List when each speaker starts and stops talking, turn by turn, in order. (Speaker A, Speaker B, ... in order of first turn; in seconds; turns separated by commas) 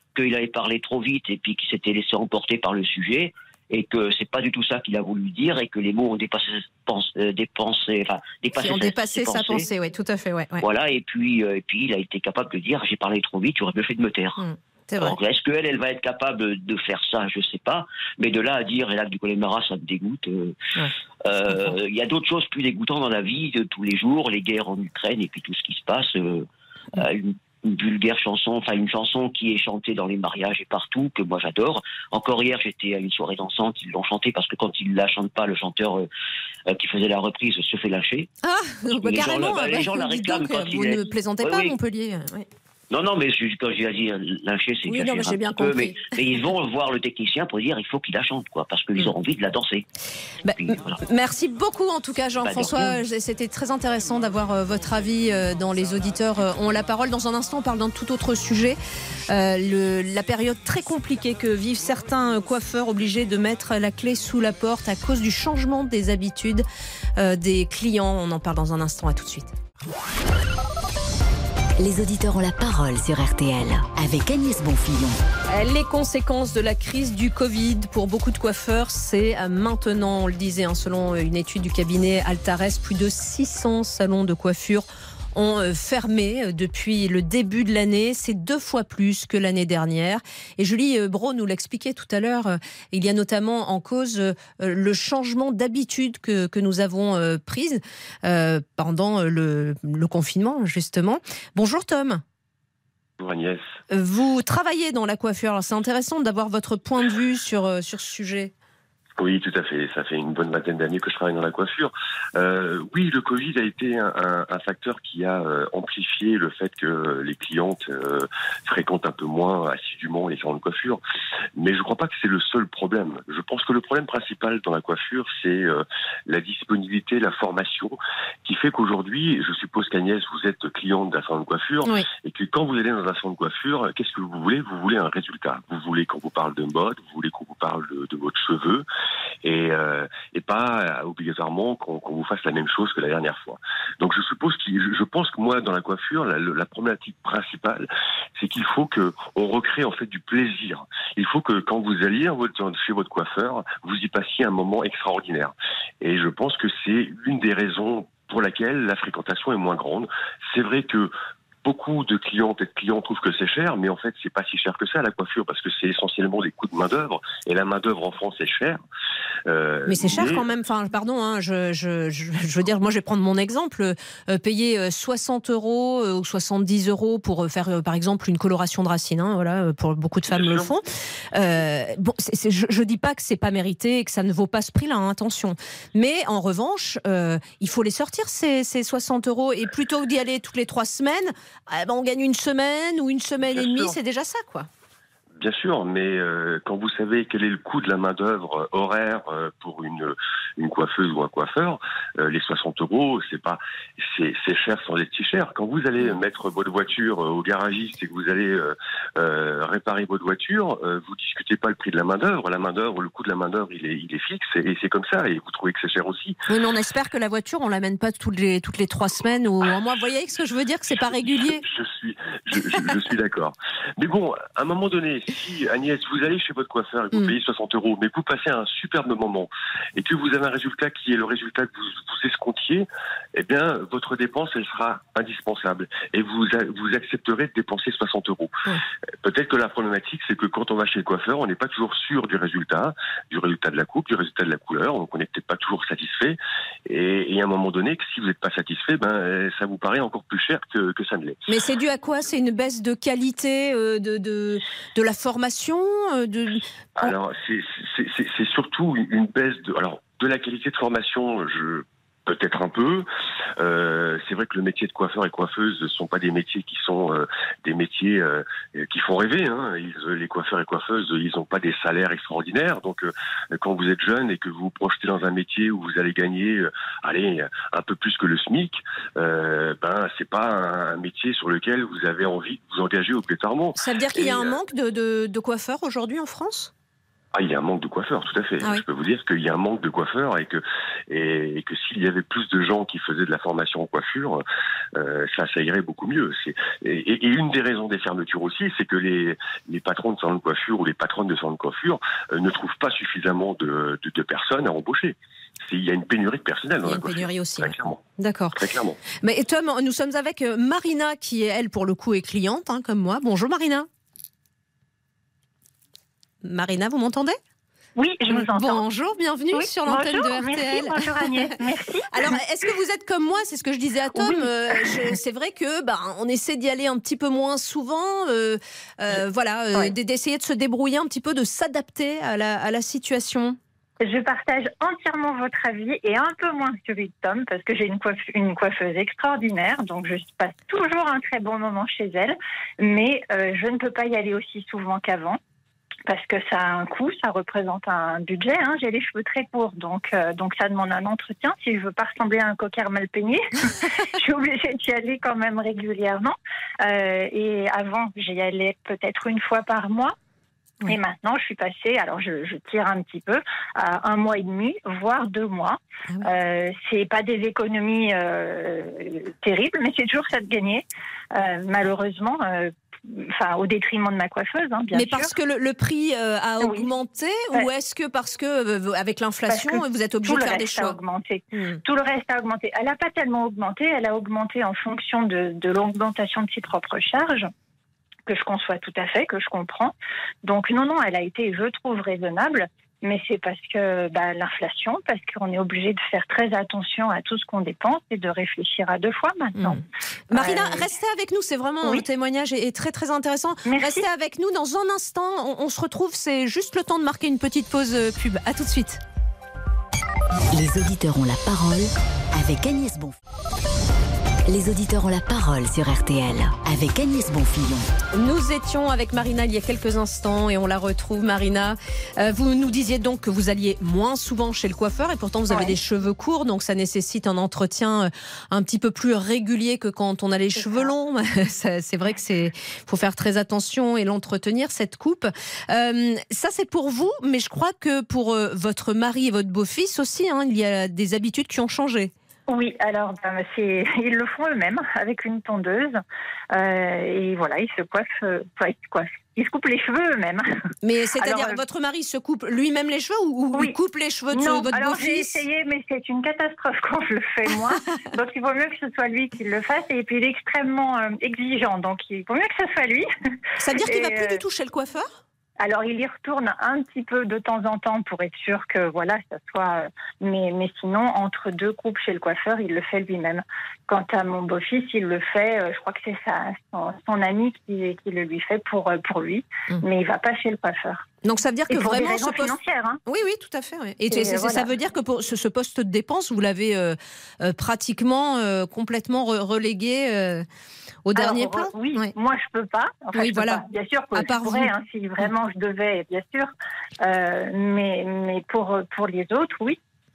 Speaker A: 0.1-9.7, Speaker B: 8.5-10.6, Speaker A: 10.6-14.4, Speaker B: 14.4-15.2, Speaker A: 15.0-20.6, Speaker A: 21.2-36.1, Speaker B: 21.5-21.8, Speaker A: 36.7-38.3, Speaker B: 38.4-42.5, Speaker A: 38.9-41.8, Speaker A: 42.9-49.9, Speaker B: 44.9-46.1, Speaker B: 50.5-66.6, Speaker A: 50.5-51.0, Speaker A: 52.4-53.0, Speaker B: 67.2-69.5, Speaker C: 71.8-75.2, Speaker B: 75.5-102.2, Speaker D: 103.2-103.6, Speaker B: 103.9-108.5, Speaker D: 109.2-121.0, Speaker D: 121.5-138.9, Speaker D: 139.4-161.1, Speaker D: 161.6-168.8, Speaker D: 169.5-170.5, Speaker B: 169.9-194.7, Speaker D: 180.3-180.7, Speaker D: 193.5-193.9, Speaker D: 195.4-216.4, Speaker B: 216.5-221.6, Speaker D: 221.6-238.6, Speaker D: 239.2-251.4, Speaker B: 251.5-257.1, Speaker D: 257.0-284.6, Speaker B: 283.8-286.7, Speaker D: 287.3-294.4, Speaker D: 294.9-309.0, Speaker B: 306.9-308.6, Speaker B: 309.2-313.9, Speaker B: 316.4-317.4, Speaker E: 318.0-318.8, Speaker B: 318.3-321.5, Speaker E: 319.5-322.4, Speaker B: 322.1-333.6, Speaker E: 324.1-325.0, Speaker E: 334.0-345.4, Speaker E: 346.1-360.1, Speaker E: 360.9-375.3, Speaker B: 374.9-381.0, Speaker E: 376.6-376.9, Speaker E: 379.5-387.5, Speaker B: 381.5-381.8, Speaker E: 388.3-400.9, Speaker B: 400.3-409.0, Speaker E: 403.6-404.0, Speaker C: 410.5-413.2, Speaker C: 414.4-417.9, Speaker B: 418.1-442.1, Speaker E: 425.5-425.8, Speaker E: 430.6-430.9, Speaker E: 442.5-446.0, Speaker E: 446.5-450.6, Speaker B: 450.8-455.4, Speaker E: 451.2-451.6, Speaker E: 454.3-463.1, Speaker B: 463.6-465.1, Speaker E: 463.8-464.4, Speaker E: 465.6-481.1, Speaker B: 481.2-482.6, Speaker E: 481.7-483.0, Speaker B: 483.1-490.4, Speaker E: 484.1-484.7, Speaker B: 491.1-492.1, Speaker E: 491.1-496.5, Speaker B: 493.1-493.6, Speaker B: 494.1-494.7, Speaker E: 497.0-499.8